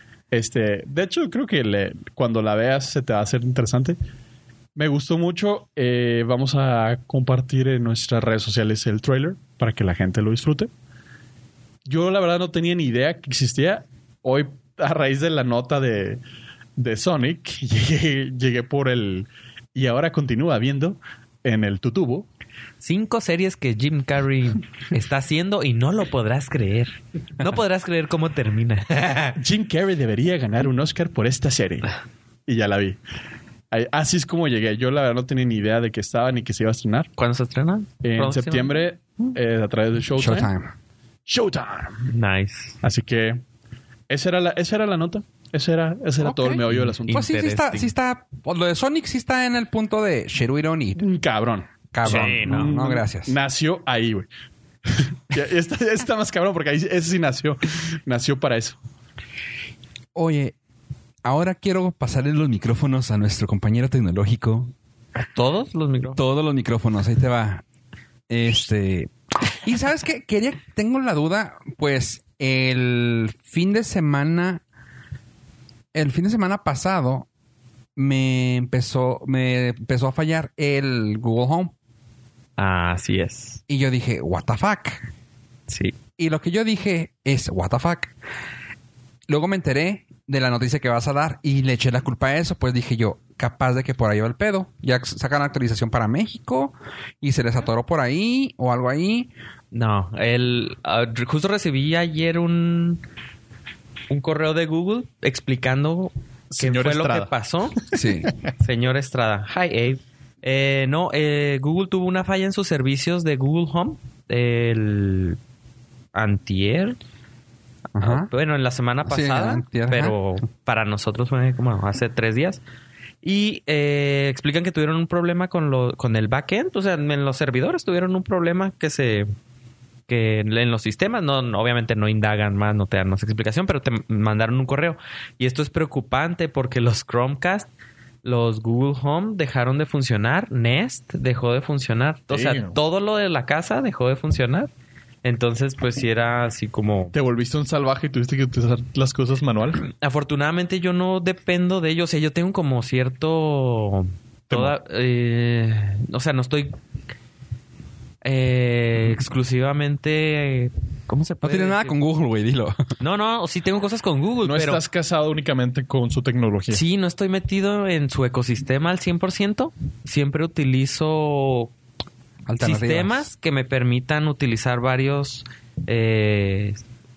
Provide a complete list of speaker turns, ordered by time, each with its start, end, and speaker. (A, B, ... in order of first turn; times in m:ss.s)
0:00.3-0:04.0 A
0:04.8-0:10.7 A
0:11.8-0:16.2 A
0:16.8-0:22.2 A
0:22.8-0:29.4 B
0:29.4-0:31.9 A
0:32.5-0:33.0 A
0:33.7-0:37.1 A
0:37.2-0:38.8 B
0:38.0-0:40.5 A
0:40.2-0:40.7 C
0:41.3-0:42.0 A
0:42.1-0:42.8 B
0:42.8-0:43.4 A
0:44.1-0:47.2 A
0:46.2-0:51.0 C
0:46.7-0:47.9 B
0:51.0-0:54.3 A
0:51.9-0:53.3 C
0:52.0-0:52.7 B
0:54.8-0:58.8 A
1:00.1-1:00.5 C
1:01.2-1:04.7 C
1:05.2-1:06.2 B
1:06.2-1:07.6 C
1:08.3-1:09.1 C
1:09.6-1:14.6 C
1:15.9-1:17.3 C
1:18.0-1:21.7 C
1:22.6-1:23.6 B
1:23.7-1:25.1 C
1:25.7-1:26.0 B
1:26.2-1:28.1 C
1:29.3-1:39.3 C
1:39.7-1:43.0 B
1:44.1-1:47.9 B
1:46.5-1:47.3 A
1:47.9-1:48.3 C
1:48.6-1:55.4 B
1:56.1-1:57.0 B
1:57.9-1:58.3 C
1:58.0-2:02.6 B
1:59.0-2:00.2 C
2:03.2-2:09.3 B
2:10.1-2:17.7 B
2:18.2-2:24.7 B
2:22.3-2:22.8 A
2:25.2-2:27.1 B
2:27.1-2:29.8 A
2:29.8-2:36.7 B
2:34.5-2:34.7 A
2:38.2-2:41.9 B
2:41.4-2:42.8 C
2:43.0-2:44.8 B
2:44.4-2:46.8 A
2:46.7-2:51.7 B
2:52.4-2:53.2 C
2:52.6-2:56.8 B